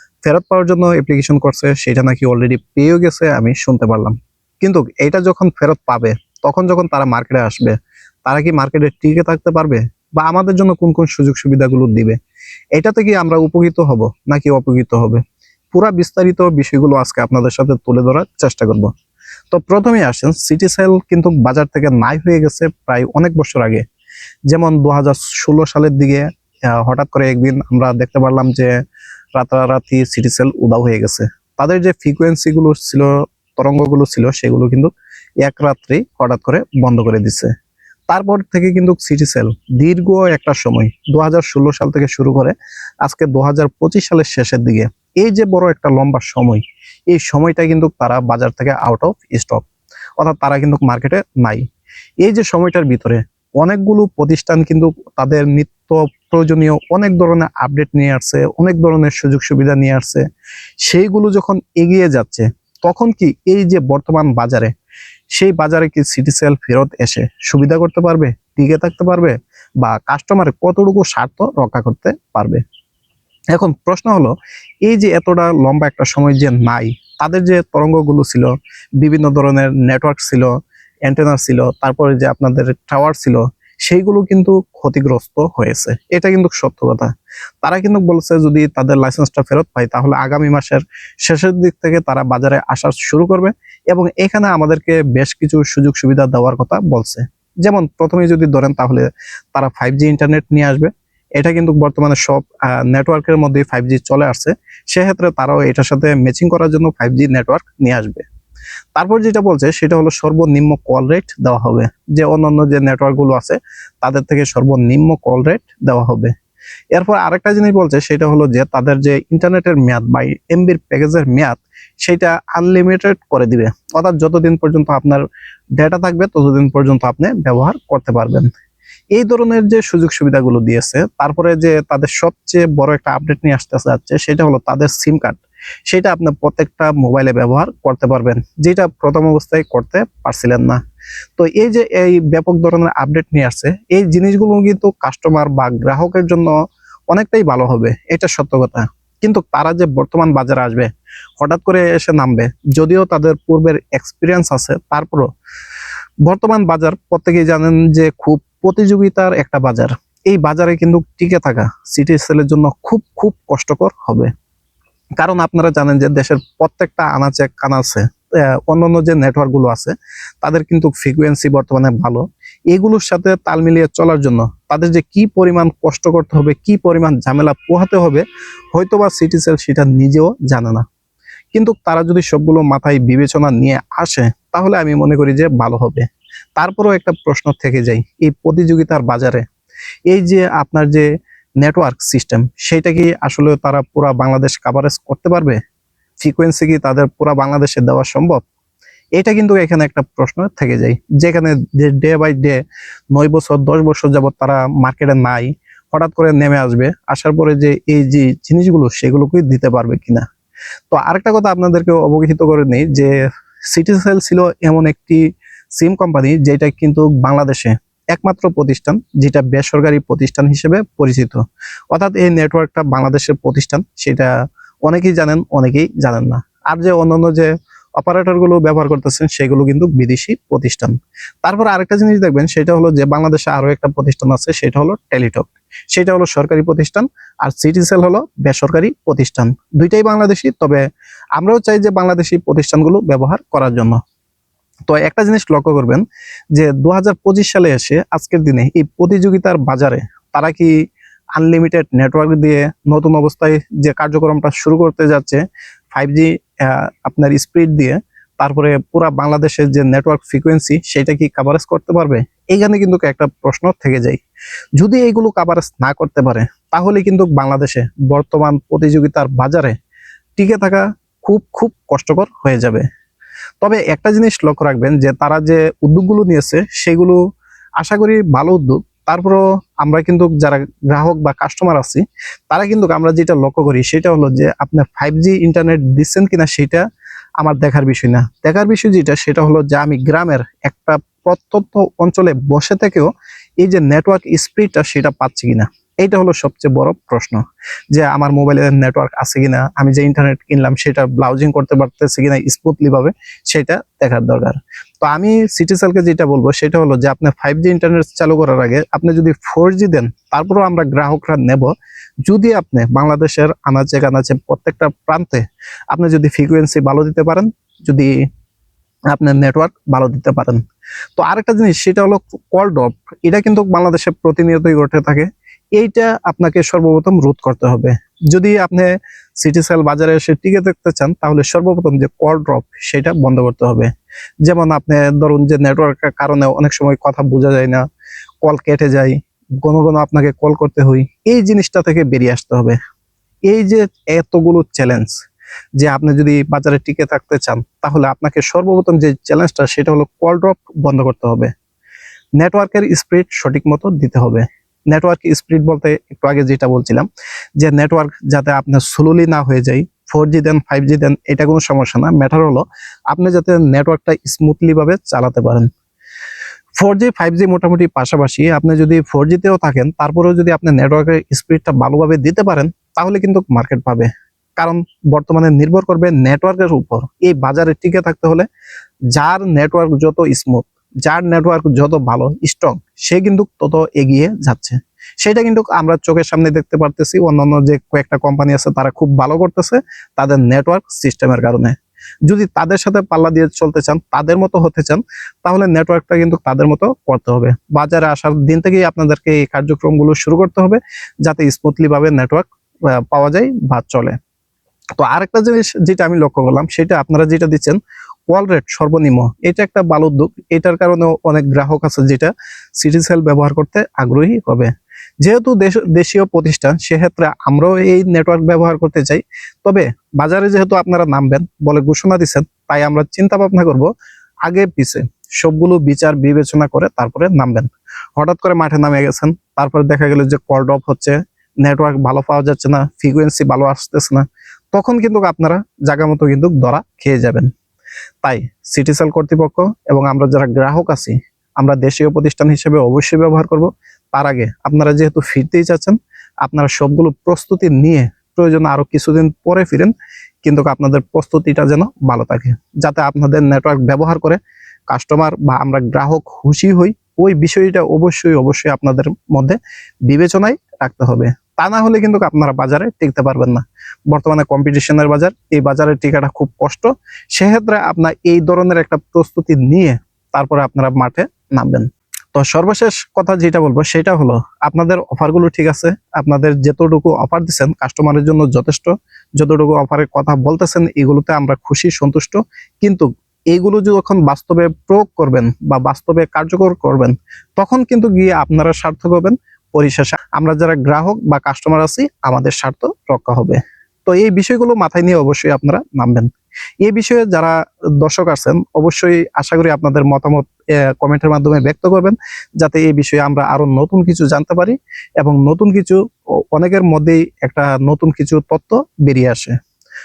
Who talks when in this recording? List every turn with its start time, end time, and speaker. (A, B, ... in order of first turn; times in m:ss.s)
0:00.2-0:07.8 A
0:08.3-0:12.2 A
0:12.8-0:15.2 A
0:15.7-0:18.9 A
0:19.5-0:23.8 A
0:24.5-0:28.7 A
0:29.4-0:37.5 A
0:38.1-0:49.7 A
0:50.2-0:51.6 A
0:52.2-1:00.2 A
1:00.8-1:04.7 A
1:05.4-1:12.6 A
1:13.5-1:20.5 A
1:21.0-1:27.1 A
1:27.6-1:48.2 A
1:49.0-1:56.3 A
1:56.9-2:05.2 A
2:05.8-2:08.5 A
2:09.1-2:20.8 A
2:21.4-2:26.6 A
2:27.1-2:35.3 A
2:36.2-2:44.3 A
2:45.2-3:00.8 A
3:01.5-3:09.4 A
3:10.1-3:11.1 A
3:11.6-3:15.6 A
3:16.2-3:18.4 A
3:19.2-3:22.6 A
3:23.1-3:30.3 A
3:30.9-3:33.1 A
3:33.7-3:35.2 A
3:35.8-3:44.3 A
3:44.8-4:04.0 A
4:04.9-4:10.8 A
4:11.4-4:24.2 A
4:24.8-4:29.7 A
4:30.4-4:32.9 A
4:33.6-4:37.2 A
4:37.8-4:46.8 A
4:47.4-5:11.7 A
5:12.2-5:18.2 A
5:19.1-5:20.6 A
5:21.2-5:33.9 A
5:34.4-5:37.8 A
5:38.4-5:42.8 A
5:43.5-5:45.1 A
5:45.8-5:51.5 A
5:52.4-5:57.1 A
5:57.6-6:05.7 A
6:06.8-6:18.5 A
6:19.1-6:31.8 A
6:32.3-6:44.2 A
6:45.0-6:47.8 A
6:48.3-7:03.9 A
7:04.4-7:17.5 A
7:18.2-7:29.9 A
7:30.4-8:16.3 A
8:16.8-8:26.0 A
8:26.5-8:29.6 A